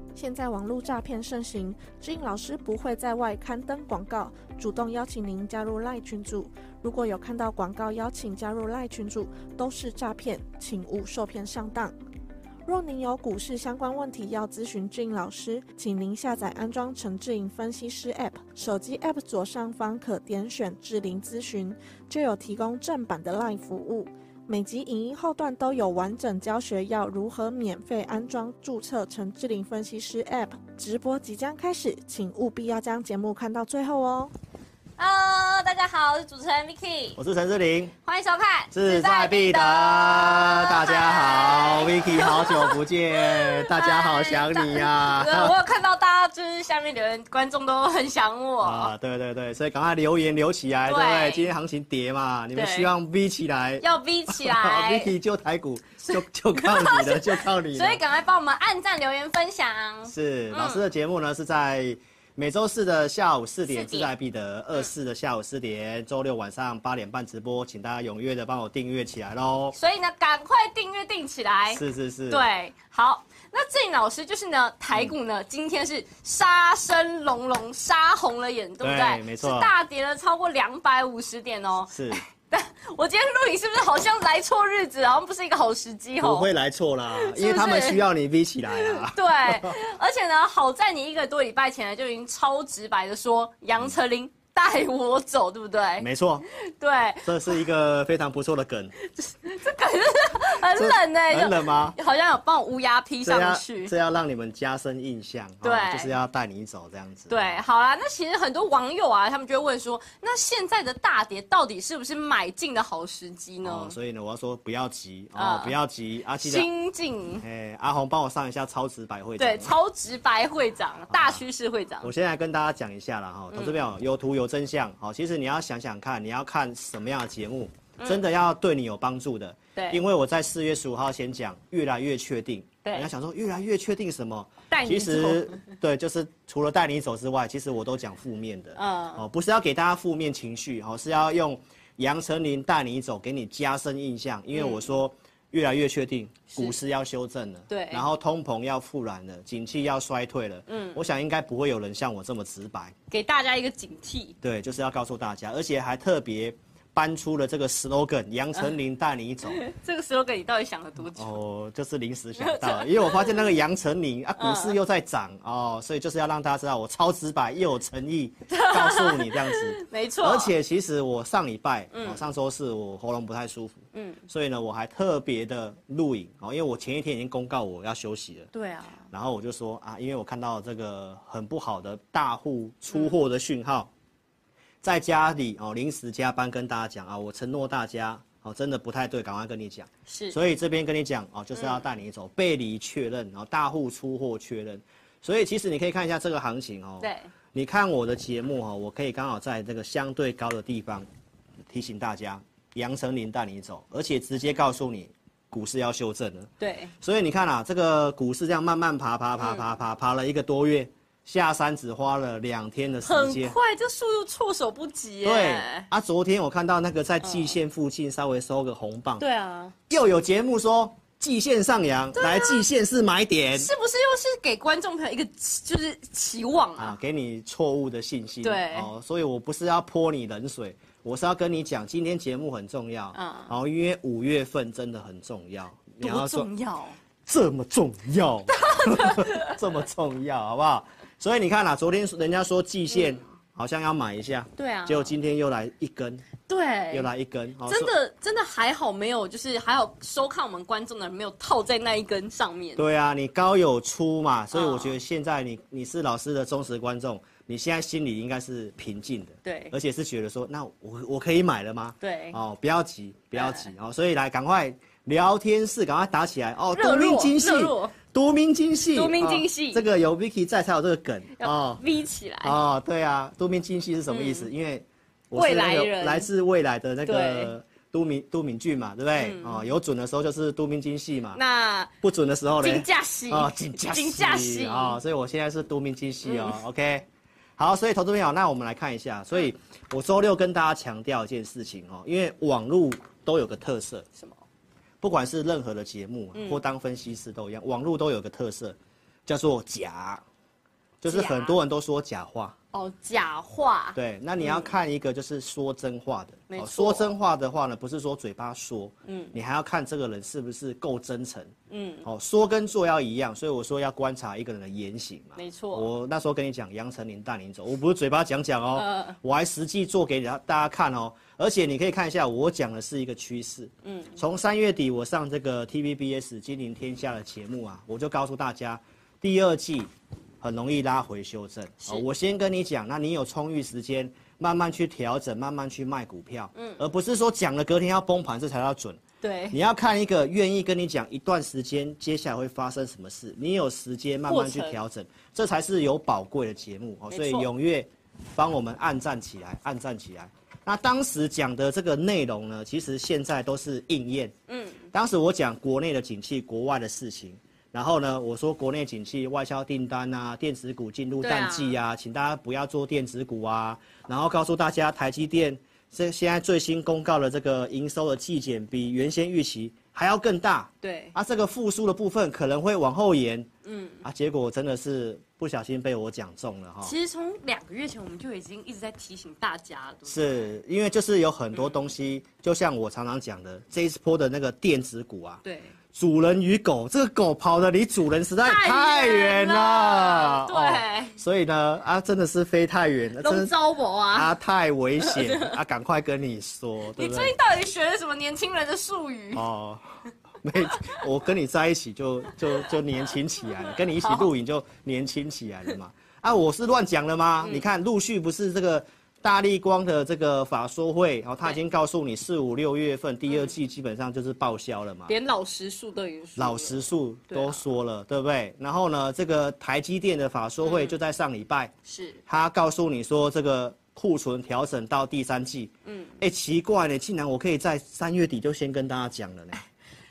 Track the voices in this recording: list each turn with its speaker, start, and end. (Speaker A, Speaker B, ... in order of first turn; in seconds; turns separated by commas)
Speaker A: 0.1-11.9, Speaker A: 12.7-34.3, Speaker B: 35.0-37.2, Speaker C: 37.2-37.9, Speaker B: 38.1-48.9, Speaker C: 38.7-45.6, Speaker C: 48.6-58.0, Speaker B: 50.9-51.5, Speaker B: 52.5-52.9, Speaker B: 53.8-55.1, Speaker B: 56.0-60.8, Speaker C: 60.1-69.8, Speaker B: 63.7-64.1, Speaker B: 69.7-86.5, Speaker C: 71.7-72.5, Speaker C: 78.8-79.7, Speaker C: 81.9-82.2, Speaker C: 86.2-89.8, Speaker B: 87.1-88.0, Speaker B: 88.6-97.6, Speaker C: 96.0-96.5, Speaker C: 97.2-98.9, Speaker B: 99.0-103.9, Speaker C: 100.7-102.0, Speaker C: 103.2-107.6, Speaker B: 105.6-106.1, Speaker B: 107.3-114.0, Speaker C: 113.6-116.7, Speaker B: 115.3-115.7, Speaker B: 116.4-117.4, Speaker C: 117.4-119.7, Speaker B: 119.4-122.1, Speaker C: 121.1-121.4, Speaker C: 122.0-152.9, Speaker B: 123.5-123.8, Speaker B: 128.0-128.2, Speaker B: 129.8-130.0, Speaker B: 132.8-133.1, Speaker B: 134.7-135.7, Speaker B: 138.8-139.2, Speaker B: 144.5-144.8, Speaker B: 147.7-148.1, Speaker B: 150.7-151.0, Speaker B: 153.1-154.4, Speaker C: 154.4-159.6, Speaker B: 159.5-161.4, Speaker C: 161.1-178.5, Speaker B: 162.4-163.5, Speaker B: 164.4-164.8, Speaker B: 168.5-170.5, Speaker B: 171.9-172.2, Speaker B: 173.9-174.2, Speaker B: 178.5-179.0, Speaker C: 179.1-183.9, Speaker C: 184.8-201.1, Speaker B: 190.1-190.4, Speaker B: 191.6-191.8, Speaker B: 197.0-197.3, Speaker C: 201.7-206.5, Speaker B: 206.6-206.9, Speaker C: 207.0-213.6, Speaker B: 209.4-209.7, Speaker B: 213.0-215.9, Speaker C: 215.2-219.2, Speaker B: 217.2-217.6, Speaker B: 219.2-219.8, Speaker C: 219.9-223.7, Speaker B: 222.2-222.6, Speaker B: 223.6-227.0, Speaker C: 226.8-236.5, Speaker B: 228.4-228.9, Speaker B: 233.1-233.5, Speaker B: 236.0-237.0, Speaker C: 237.3-246.3, Speaker B: 238.5-239.6, Speaker B: 242.9-243.2, Speaker B: 244.6-245.2, Speaker B: 246.5-247.1, Speaker C: 246.9-247.9, Speaker B: 247.6-252.8, Speaker C: 252.8-271.8, Speaker B: 254.5-255.0, Speaker B: 259.4-259.7, Speaker B: 262.0-262.4, Speaker B: 263.4-263.7, Speaker B: 266.8-268.0, Speaker B: 268.9-269.8, Speaker B: 271.4-272.6, Speaker C: 272.4-281.4, Speaker B: 274.1-274.5, Speaker B: 275.3-276.3, Speaker B: 277.1-277.5, Speaker B: 279.2-279.6, Speaker B: 281.3-281.9, Speaker C: 282.0-287.1, Speaker B: 282.6-285.0, Speaker B: 286.2-286.6, Speaker C: 287.6-294.1, Speaker C: 295.0-300.2, Speaker B: 296.3-296.6, Speaker C: 301.0-302.6, Speaker B: 301.0-301.6, Speaker B: 302.7-304.7, Speaker C: 303.9-311.5, Speaker B: 306.5-307.1, Speaker B: 309.1-309.4, Speaker B: 311.7-312.1, Speaker C: 312.1-339.0, Speaker B: 315.4-315.9, Speaker B: 318.8-319.2, Speaker B: 323.8-324.2, Speaker B: 336.6-336.8, Speaker B: 339.2-339.6, Speaker C: 339.5-354.3, Speaker B: 344.3-344.8, Speaker B: 347.1-347.5, Speaker B: 354.5-354.9, Speaker C: 354.9-373.5, Speaker B: 361.2-361.8, Speaker B: 370.8-371.1, Speaker B: 373.6-374.0, Speaker C: 374.0-376.9, Speaker B: 376.8-380.5, Speaker C: 380.1-385.4, Speaker B: 381.6-381.9, Speaker B: 385.4-385.7, Speaker C: 385.9-393.5, Speaker B: 388.4-391.2, Speaker B: 393.2-394.3, Speaker C: 394.1-397.4, Speaker B: 395.0-395.6, Speaker B: 397.0-399.4, Speaker C: 399.3-415.1, Speaker B: 400.7-401.0, Speaker B: 403.9-404.3, Speaker B: 407.4-407.7, Speaker B: 413.3-413.6, Speaker B: 415.1-417.6, Speaker C: 416.4-421.7, Speaker B: 420.6-421.0, Speaker B: 421.9-422.2, Speaker C: 422.3-429.6, Speaker B: 425.9-426.2